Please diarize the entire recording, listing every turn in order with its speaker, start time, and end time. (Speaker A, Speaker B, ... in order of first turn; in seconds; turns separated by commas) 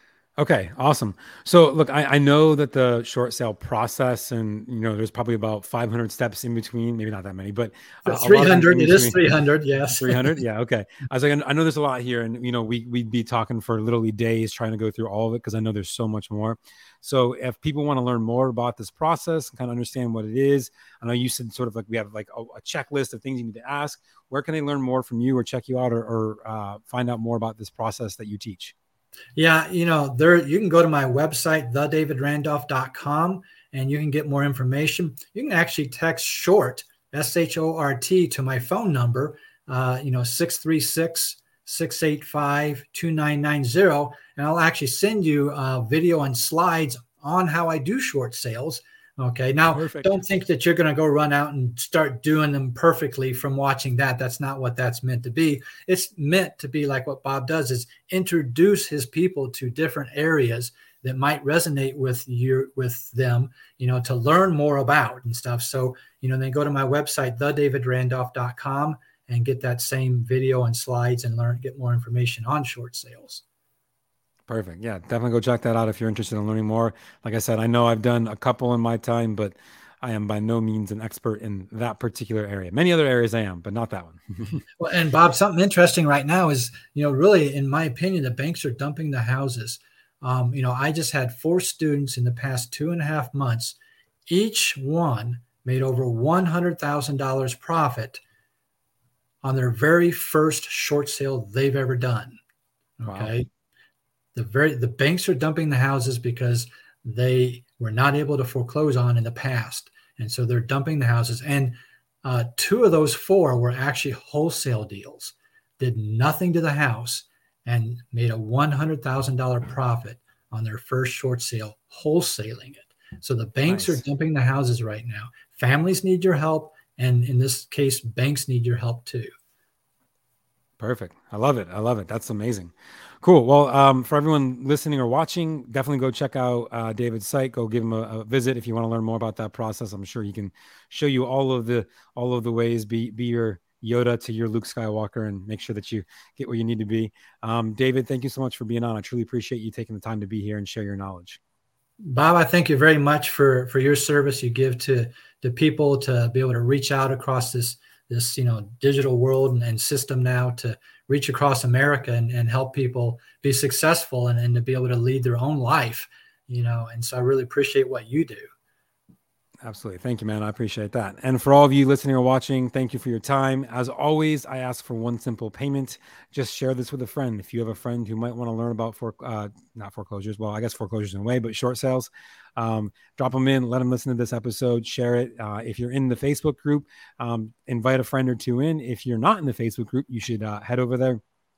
Speaker A: 0.4-9.2, Speaker B: 8.1-10.3, Speaker A: 9.9-28.7, Speaker B: 29.4-73.4, Speaker A: 49.7-50.1, Speaker A: 74.5-84.7, Speaker B: 84.8-93.8, Speaker B: 94.3-98.2, Speaker B: 99.4-102.4, Speaker B: 103.0-103.5, Speaker A: 103.1-103.3, Speaker B: 104.3-129.3, Speaker A: 123.7-124.0, Speaker A: 130.8-151.4, Speaker B: 152.0-168.5, Speaker A: 169.6-191.2